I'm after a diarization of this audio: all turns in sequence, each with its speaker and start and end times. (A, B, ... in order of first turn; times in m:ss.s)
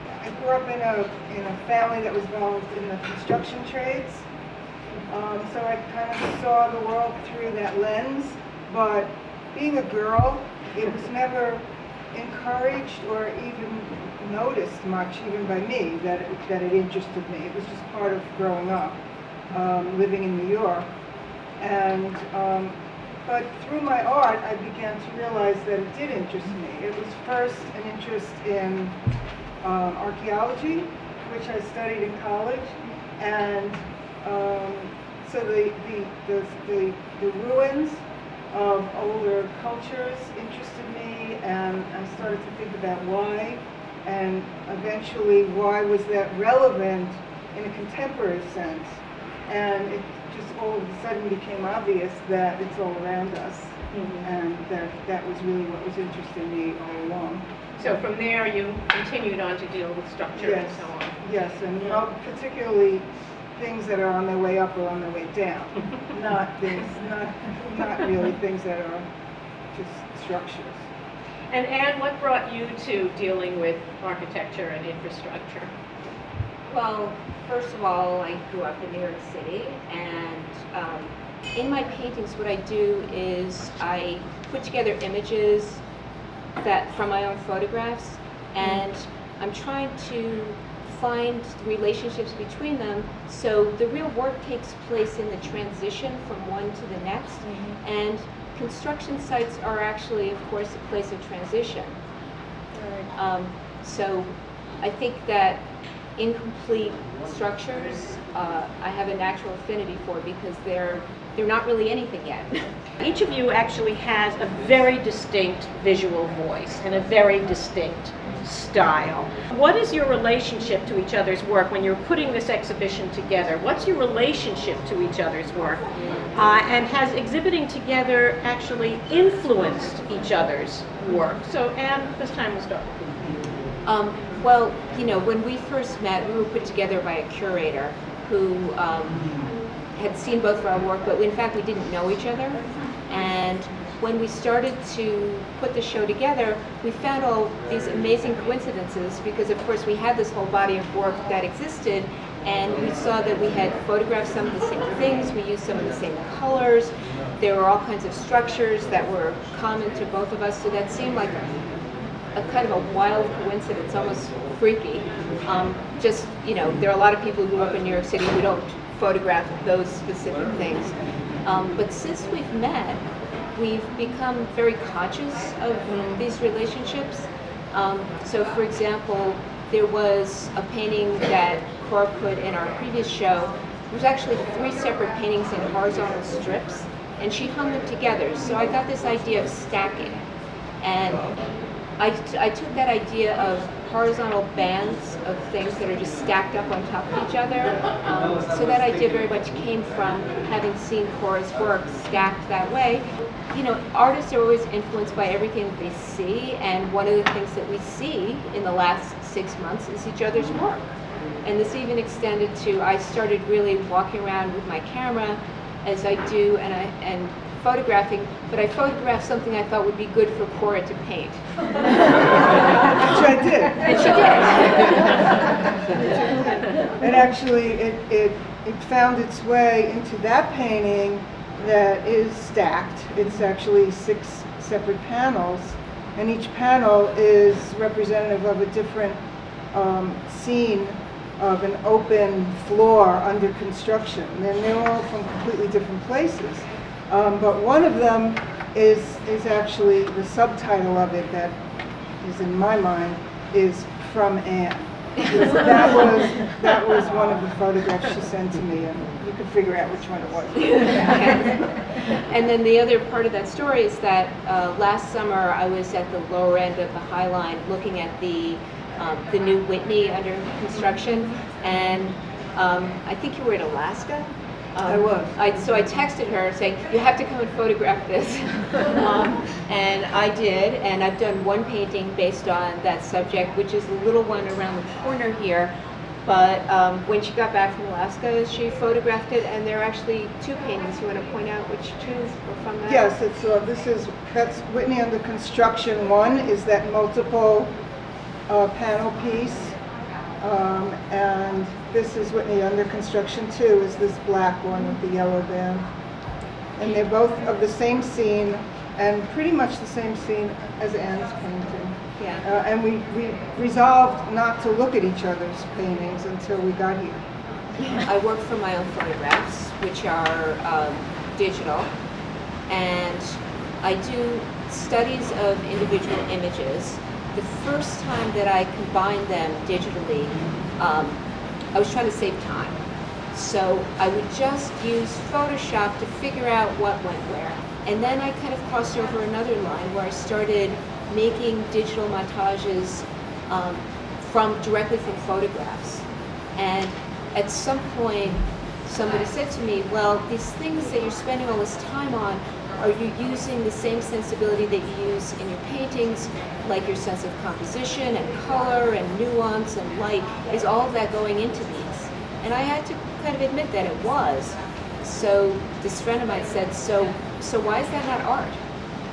0:00.2-0:04.2 A
0:05.1-0:19.0 A
0:19.5-0:20.9 A
0:21.6-0:28.9 A
0:29.6-0:48.9 A
0:49.5-0:57.5 A
0:53.9-0:54.2 B
0:57.8-1:01.2 B
1:00.4-1:03.0 A
1:03.6-1:09.0 A
1:09.7-1:10.8 A
1:11.5-1:15.7 B
1:16.7-1:25.8 C
1:26.6-1:42.0 C
1:37.4-1:37.8 B
1:43.1-1:44.3 C
1:44.8-1:45.6 C
1:46.2-1:52.7 C
1:53.0-2:05.8 B
2:06.3-2:12.9 B
2:13.8-2:19.2 C
2:19.9-2:41.6 C
2:42.3-2:50.9 C
2:51.4-2:53.0 C
2:53.5-3:10.2 C
2:55.9-2:56.2 B
3:10.8-3:11.3 C
3:12.0-3:30.9 C
3:31.4-3:43.0 C
3:42.9-3:44.0 A
3:43.8-3:45.3 C
3:45.0-3:59.2 A
3:59.7-4:11.6 A
4:12.2-4:21.3 A
4:20.6-4:45.7 C
4:34.8-4:35.4 A
4:46.2-4:53.1 C
4:52.8-4:57.7 A
4:58.5-4:59.8 A
5:00.4-5:05.8 A
5:06.8-5:17.2 A
5:12.2-5:12.4 C
5:17.8-5:21.9 C
5:22.7-5:31.2 C
5:31.7-5:32.8 C
5:33.3-5:46.0 C
5:46.6-6:08.6 C